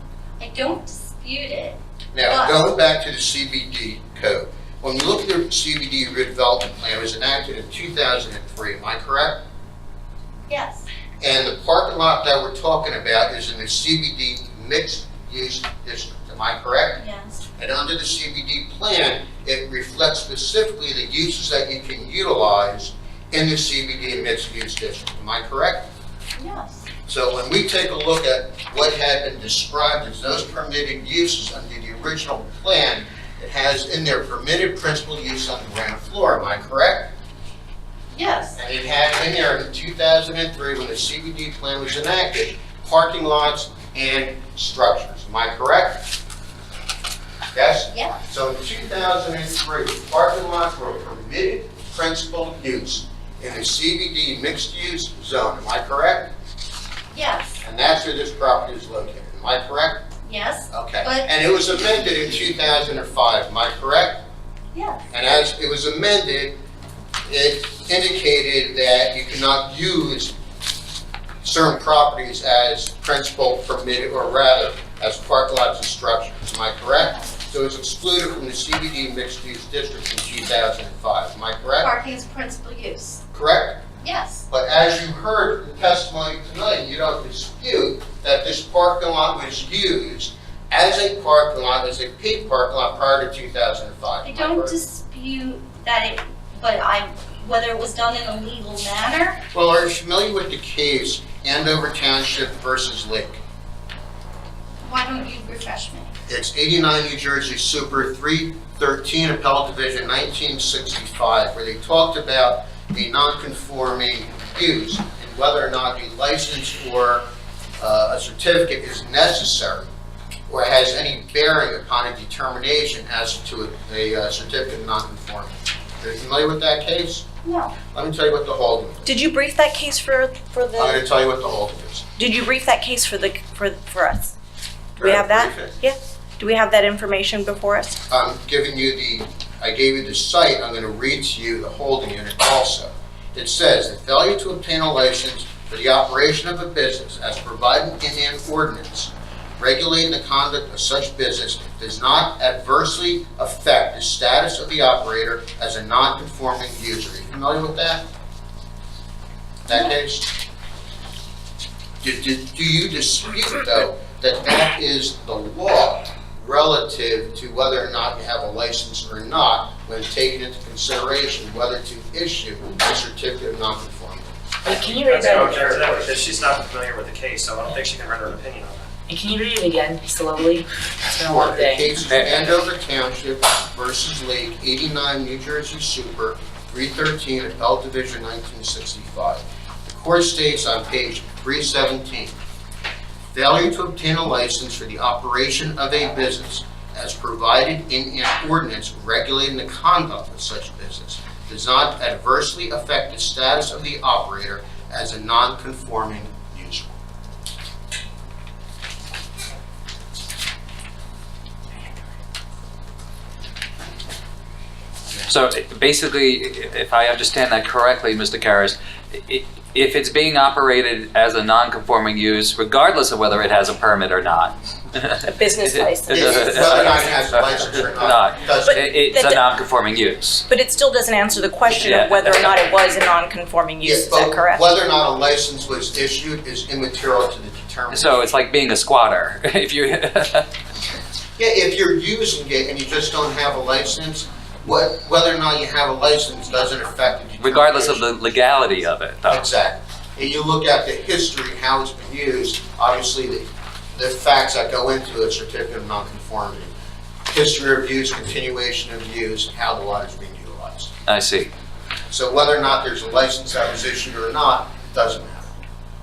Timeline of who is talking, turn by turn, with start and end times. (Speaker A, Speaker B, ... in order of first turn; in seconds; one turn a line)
Speaker A: 0.4-2.7
Speaker B: 2.1-9.4
Speaker A: 10.5-10.9
Speaker B: 11.2-17.0
Speaker A: 17.0-17.4
Speaker B: 17.6-25.9
Speaker A: 26.4-26.9
Speaker B: 27.1-37.1
Speaker A: 38.1-38.6
Speaker B: 38.6-46.1
Speaker B: 47.5-56.3
Speaker A: 47.9-48.2
Speaker A: 57.1-57.6
Speaker B: 57.6-60.1
Speaker A: 60.2-61.3
Speaker B: 60.7-64.2
Speaker A: 64.7-65.0
Speaker B: 65.1-66.6
Speaker B: 67.3-70.3
Speaker B: 71.4-81.9
Speaker A: 81.8-83.2
Speaker B: 83.3-83.8
Speaker A: 84.0-84.5
Speaker B: 84.5-94.8
Speaker A: 94.2-99.4
Speaker B: 99.5-103.4
Speaker A: 104.8-106.1
Speaker B: 106.3-119.9
Speaker B: 120.5-127.3
Speaker A: 127.4-127.7
Speaker B: 127.9-129.1
Speaker C: 129.1-131.0
Speaker B: 130.8-132.0
Speaker C: 132.2-134.4
Speaker C: 135.0-138.0
Speaker B: 135.0-135.8
Speaker B: 138.1-158.1
Speaker B: 159.7-160.3
Speaker B: 162.0-174.3
Speaker D: 174.7-175.8
Speaker E: 174.7-178.9
Speaker D: 179.1-181.9
Speaker B: 181.2-192.4
Speaker F: 182.1-182.6
Speaker B: 193.3-206.9
Speaker F: 215.3-230.4
Speaker C: 225.2-226.9
Speaker B: 226.1-228.8
Speaker C: 228.6-229.4
Speaker C: 230.5-234.7
Speaker F: 231.7-232.6
Speaker B: 233.8-238.3
Speaker F: 237.9-240.5
Speaker B: 241.4-248.1
Speaker F: 247.4-249.5
Speaker B: 249.3-256.7
Speaker B: 257.3-260.9
Speaker F: 261.1-261.5
Speaker B: 262.1-265.6